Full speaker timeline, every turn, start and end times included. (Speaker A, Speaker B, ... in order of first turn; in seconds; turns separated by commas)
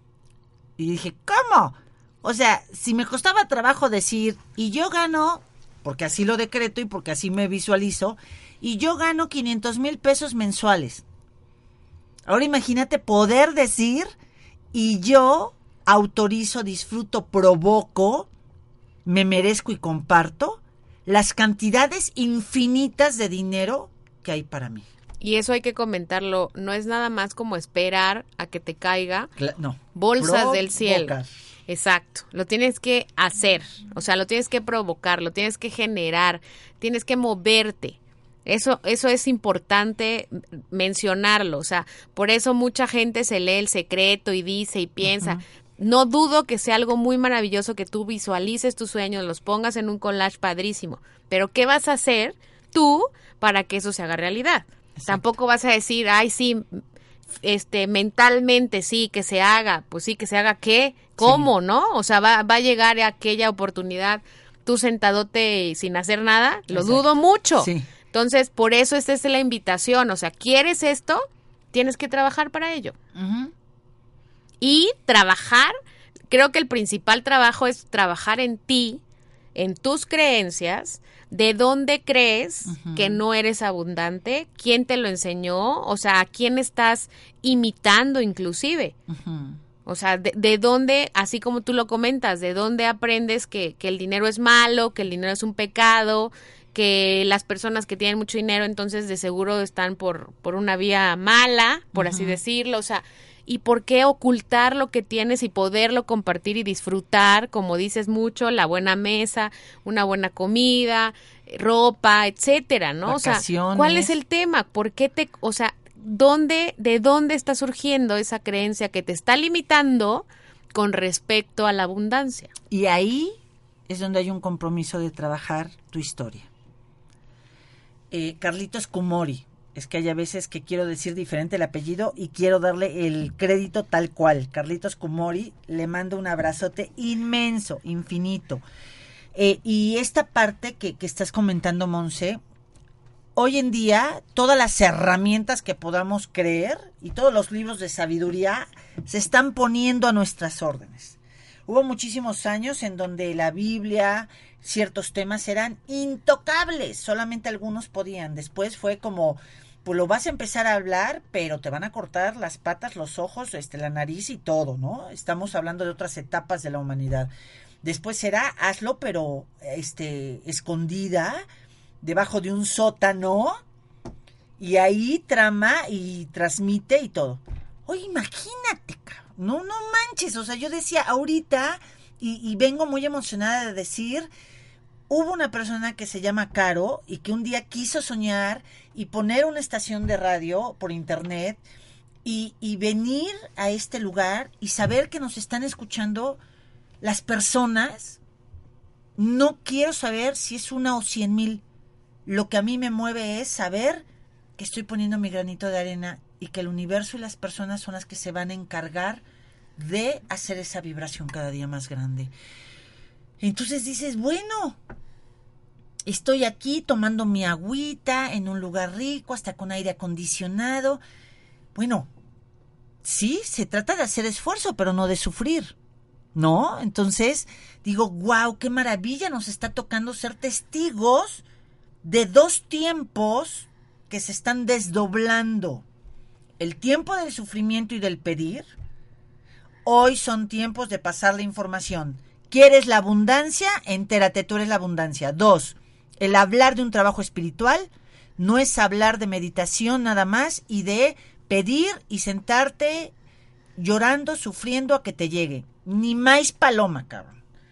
Speaker A: 0.8-11.0, Speaker A: 12.2-14.1, Speaker A: 14.7-18.3, Speaker A: 19.1-24.9, Speaker B: 25.2-29.3, Speaker A: 29.4-31.3, Speaker B: 29.9-31.1, Speaker B: 31.7-56.8, Speaker A: 45.0-45.4, Speaker B: 57.4-73.0, Speaker A: 61.2-61.5, Speaker A: 66.7-67.8, Speaker A: 73.1-73.5, Speaker B: 74.6-75.7, Speaker B: 76.3-79.0, Speaker B: 79.5-89.0, Speaker A: 82.7-83.2, Speaker A: 89.1-89.6, Speaker B: 89.8-122.5, Speaker A: 101.9-102.4, Speaker A: 113.0-114.1, Speaker A: 122.7-123.3, Speaker A: 123.9-126.5, Speaker A: 128.1-138.6, Speaker A: 139.3-142.4, Speaker A: 143.3-167.3, Speaker A: 167.8-171.4, Speaker A: 172.0-173.6, Speaker A: 174.6-184.3, Speaker A: 185.1-191.6, Speaker A: 192.2-196.4, Speaker A: 197.0-198.2, Speaker A: 199.2-201.6, Speaker A: 202.2-204.0, Speaker A: 204.6-209.2, Speaker A: 209.8-212.3, Speaker A: 213.4-214.8, Speaker A: 216.0-221.0, Speaker A: 221.7-222.1, Speaker A: 223.0-225.7, Speaker A: 226.3-231.4, Speaker A: 232.0-235.8, Speaker A: 236.6-238.7, Speaker A: 239.8-253.1, Speaker A: 253.8-257.4